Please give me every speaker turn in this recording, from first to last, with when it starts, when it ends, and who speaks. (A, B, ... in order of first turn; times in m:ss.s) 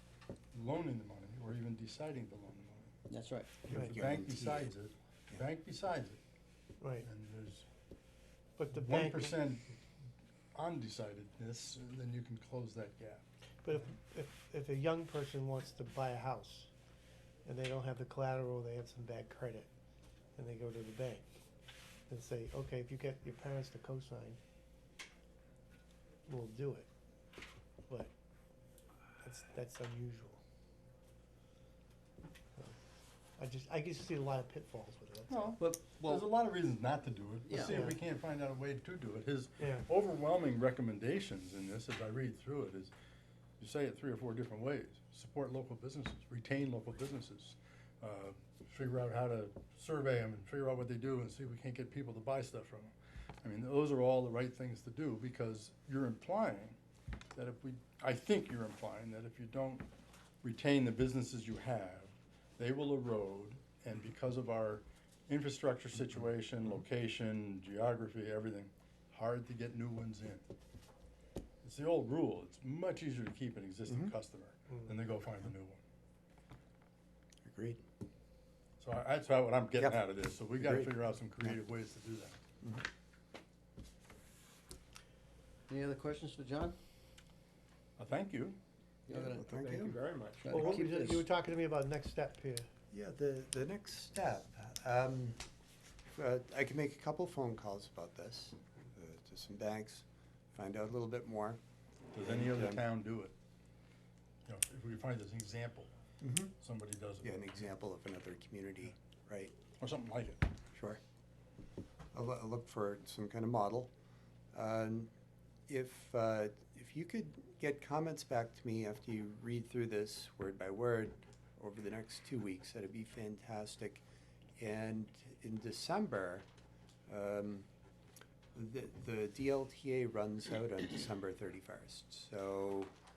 0:00.5-0:02.9 A
0:03.1-0:04.6 B
0:03.6-0:06.2 A
0:03.7-0:04.7 C
0:06.8-0:07.1 D
0:07.0-0:07.7 A
0:08.6-0:09.5 D
0:08.7-0:09.7 A
0:10.6-0:13.2 A
0:13.6-0:16.7 D
0:17.4-0:19.7 D
0:20.4-0:21.3 D
0:22.1-0:24.4 D
0:26.3-0:26.9 D
0:29.2-0:30.4 D
0:33.4-0:35.7 D
0:35.3-0:42.9 A
0:35.6-0:36.3 B
0:37.5-0:37.9 B
0:39.6-0:39.9 D
0:43.6-0:56.8 A
0:57.4-0:59.9 A
1:00.4-1:10.4 A
1:11.6-1:15.8 A
1:13.9-1:14.1 C
1:17.4-1:17.8 C
1:18.8-1:22.4 A
1:20.6-1:21.6 C
1:25.7-1:26.8 B
1:28.0-1:28.6 A
1:29.1-1:31.3 B
1:29.1-1:30.8 C
1:30.5-1:32.7 D
1:32.9-1:35.4 C
1:36.2-1:41.6 C
1:42.1-1:43.4 A
1:42.2-1:42.8 C
1:44.5-1:45.9 A
1:46.2-1:46.5 C
1:46.6-1:47.6 A
1:47.2-1:49.6 C
1:49.7-1:50.5 A
1:50.7-1:51.0 C
1:52.1-1:53.9 C
1:54.5-1:55.1 C
1:55.7-2:04.0 C
2:04.6-2:06.5 C
2:07.1-2:07.7 C
2:08.5-2:12.9 C